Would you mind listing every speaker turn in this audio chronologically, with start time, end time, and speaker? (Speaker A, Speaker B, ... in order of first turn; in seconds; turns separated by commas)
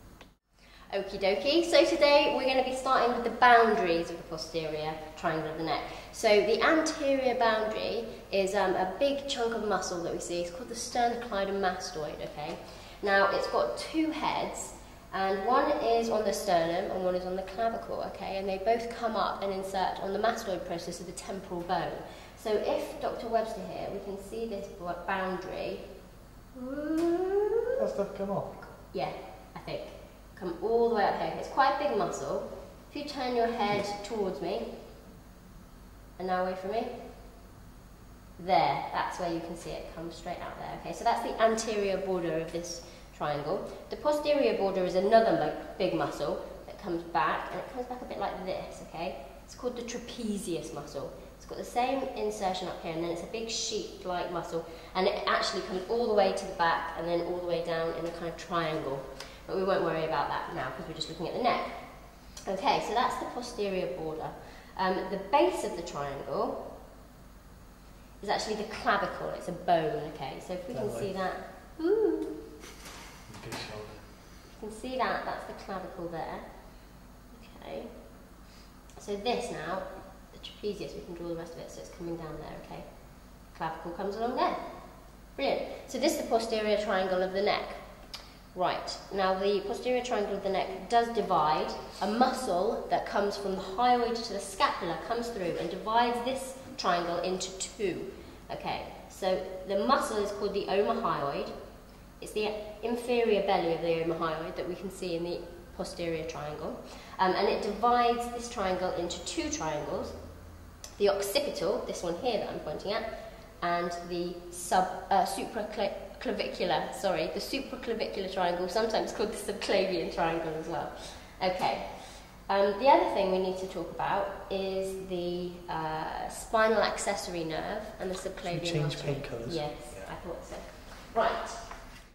Speaker A: 0.9-25.8, Speaker A: 26.6-27.6, Speaker B: 27.8-28.7, Speaker A: 28.9-34.7, Speaker A: 36.2-37.0, Speaker A: 38.4-66.7, Speaker A: 68.2-72.5, Speaker B: 70.7-71.2, Speaker B: 73.3-74.1, Speaker A: 74.5-76.5, Speaker A: 77.3-78.1, Speaker A: 79.0-87.8, Speaker A: 88.5-101.5, Speaker A: 102.2-110.2, Speaker A: 111.0-113.1, Speaker A: 113.6-131.7, Speaker B: 128.4-130.1